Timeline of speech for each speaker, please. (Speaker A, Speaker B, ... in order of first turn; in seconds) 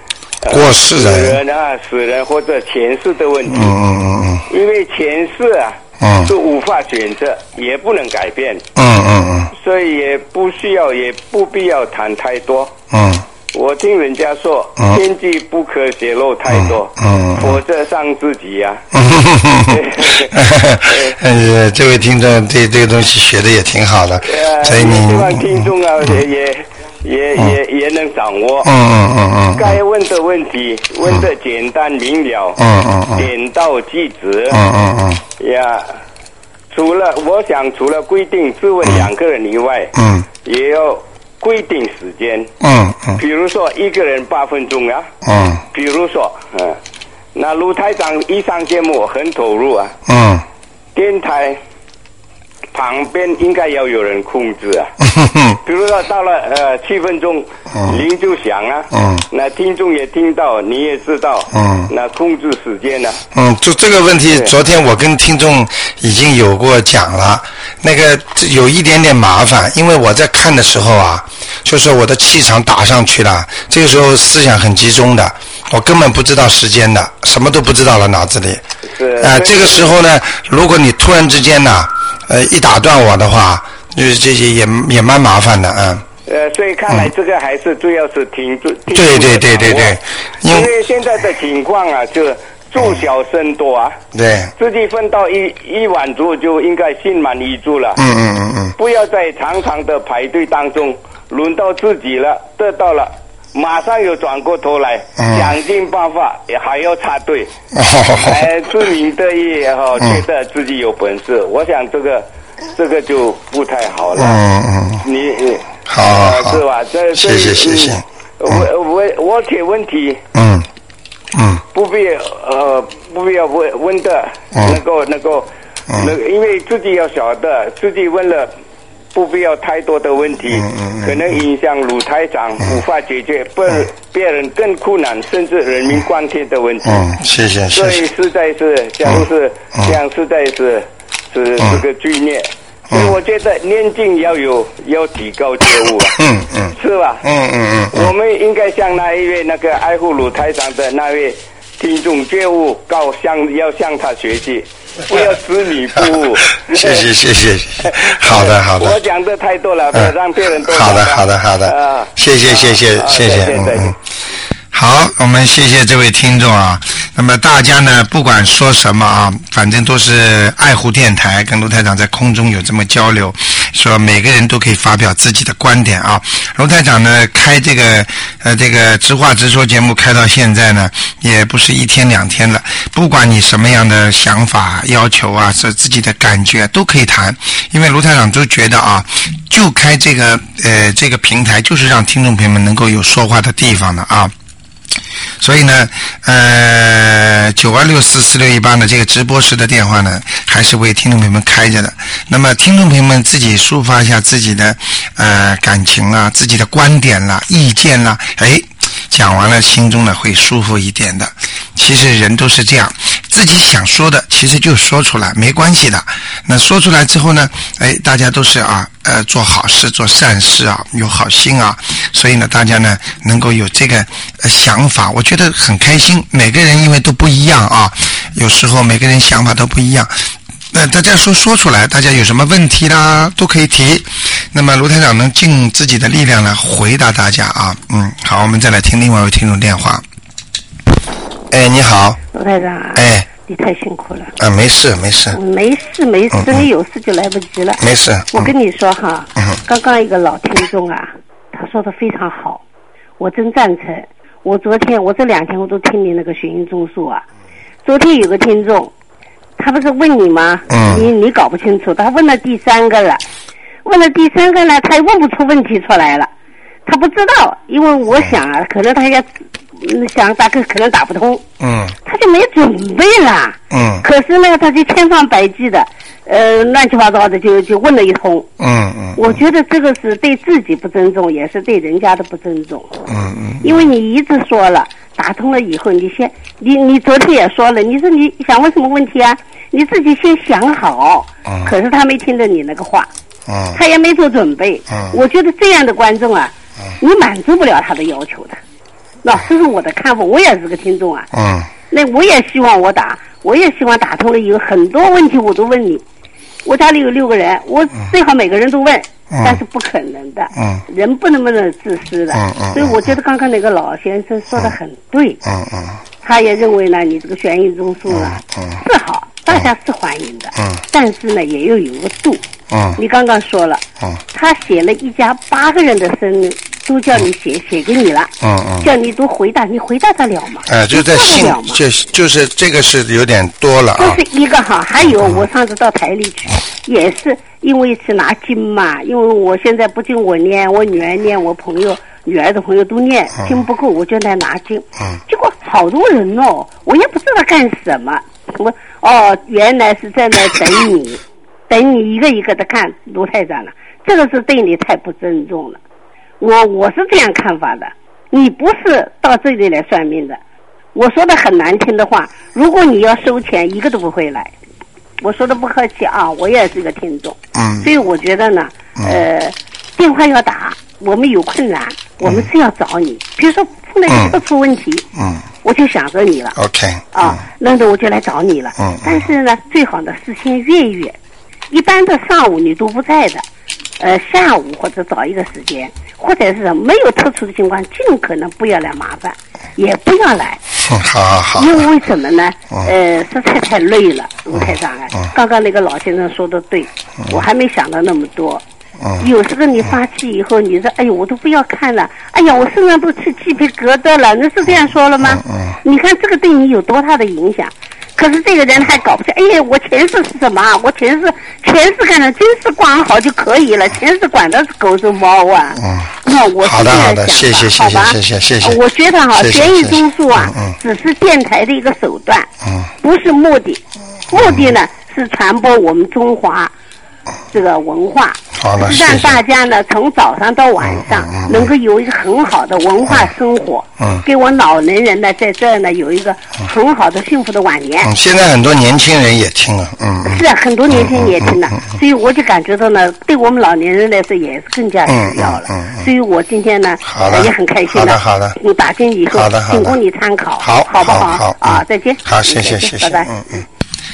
Speaker A: 0.4-3.7, 4.5-8.6, 9.5-12.7, 13.5-18.8, 19.7-21.1, 24.2-28.7, 29.6-32.6, 33.1-34.6, 35.4-35.9, 36.7-42.5, 43.2-45.1, 45.7-46.8, 47.3-49.9, 50.9-51.6, 52.7-54.9, 55.6-63.2, 79.0-80.0, 86.3-94.0, 94.6-98.0, 98.8-107.5, 108.2-114.4, 115.0-120.2, 121.7-128.5, 129.1-137.1, 137.7-146.2, 146.7-147.2, 147.9-157.1, 157.8-163.9
Speaker B: 0.5-1.4, 3.5-4.4, 6.0-6.3, 8.8-9.5, 12.9-13.2, 16.5-17.6, 18.9-25.7, 28.6-29.8, 32.6-33.3, 34.5-35.2, 39.9-40.2, 42.6-43.2, 45.2-45.6, 50.1-50.4, 55.0-55.6, 57.7-58.0, 58.9-59.2, 61.5-61.9, 63.3-78.6, 79.2-86.0, 88.9-90.7, 94.1-94.5, 98.0-98.8, 105.2-105.5, 107.7-108.5, 110.0-110.2, 114.2-115.0, 115.9-116.6, 117.1-118.6, 120.3-120.7, 121.3-121.6, 124.5-124.8, 130.5-131.2, 136.8-138.0, 142.9-143.2, 146.2-148.1, 156.7-159.0, 159.9-163.9, 164.7-194.3, 195.4-230.1, 230.7-240.0, 241.5-242.2, 242.9-243.2, 244.4-245.4, 246.3-246.6, 247.8-248.5, 260.7-261.1, 271.6-271.9, 273.7-274.1, 278.6-279.4, 283.1-283.9, 291.5-291.7, 293.5-293.8, 294.9-295.2, 301.3-301.7, 309.3-309.6, 310.6-310.8, 312.3-313.1, 315.4-316.0, 318.1-318.8, 320.6-320.8, 322.7-323.0, 328.4-328.9, 330.7-334.2, 367.5-367.9, 372.2-372.5, 374.1-374.4, 375.1-375.4, 376.6-377.4, 378.8-379.3, 390.8-391.9, 394.5-395.3, 399.0-399.3, 405.2-405.8, 415.8-416.1, 416.6-418.8, 419.3-420.8, 422.6-422.9, 424.3-424.7, 428.5-429.4, 430.8-431.7, 438.0-441.9, 445.1-446.1, 447.0-448.6, 449.3-450.0, 450.6-453.6
Speaker C: 242.3-244.3, 245.3-247.8, 248.3-252.6, 253.2-257.2, 257.8-258.9, 259.6-263.2, 263.8-266.3, 266.9-269.2, 269.8-271.4, 272.0-278.5, 279.2-283.0, 283.6-293.1, 293.7-298.6, 299.2-301.3, 301.9-306.0, 306.6-315.4, 316.2-322.4, 323.0-331.8, 334.0-355.8, 356.4-360.4, 360.9-364.5, 365.2-375.1, 375.6-376.6, 377.1-381.2, 381.7-383.4, 384.0-390.6, 391.6-398.6, 399.2-422.5, 423.0-426.7, 427.5-438.1, 440.2-453.6